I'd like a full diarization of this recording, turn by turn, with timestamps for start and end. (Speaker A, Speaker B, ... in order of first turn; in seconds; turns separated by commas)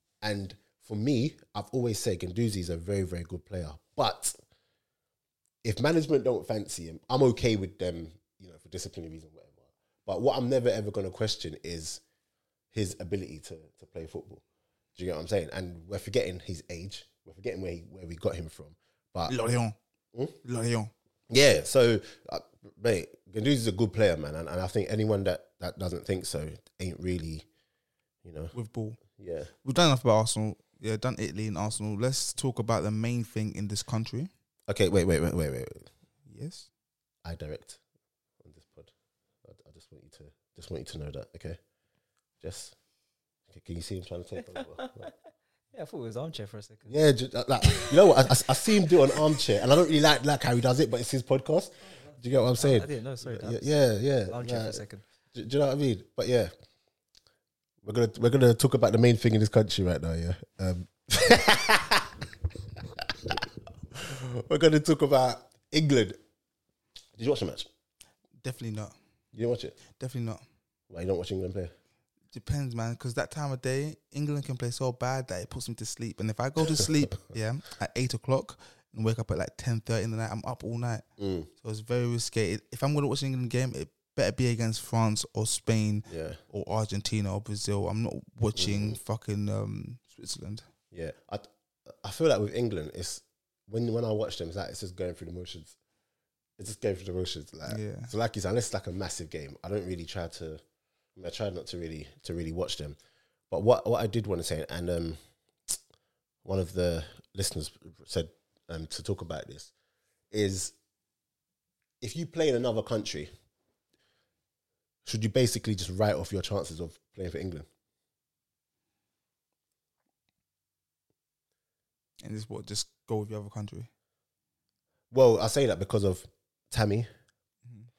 Speaker A: 0.2-4.4, Speaker A: 5.6-12.0, Speaker A: 12.7-14.4, Speaker A: 15.0-19.4, Speaker B: 19.3-19.8, Speaker B: 20.4-20.9, Speaker A: 21.3-27.5, Speaker A: 28.2-28.5, Speaker B: 28.5-29.0, Speaker A: 29.1-29.5, Speaker B: 29.6-34.3, Speaker A: 34.7-35.9, Speaker B: 36.3-36.7, Speaker A: 37.2-37.8, Speaker A: 38.4-38.9, Speaker A: 39.4-41.6, Speaker A: 42.4-42.8, Speaker A: 43.5-45.1, Speaker C: 44.5-45.1, Speaker C: 45.7-47.0, Speaker A: 46.9-54.8, Speaker C: 47.6-49.4, Speaker C: 51.9-53.8, Speaker C: 54.3-55.0, Speaker A: 55.3-56.5, Speaker A: 57.8-66.2, Speaker A: 67.2-67.7, Speaker B: 68.4-69.0, Speaker A: 69.3-69.8, Speaker B: 70.0-70.4, Speaker A: 70.9-71.7, Speaker B: 72.3-81.0, Speaker A: 81.2-81.5, Speaker B: 81.6-90.7, Speaker A: 86.1-86.4, Speaker A: 88.5-89.0, Speaker A: 90.9-95.8, Speaker A: 96.6-100.6, Speaker B: 97.7-98.1, Speaker A: 101.2-103.0, Speaker A: 103.5-105.8, Speaker A: 106.4-109.7, Speaker A: 110.3-110.7, Speaker A: 112.0-113.3, Speaker A: 115.0-117.7, Speaker B: 122.2-123.9, Speaker A: 125.1-127.1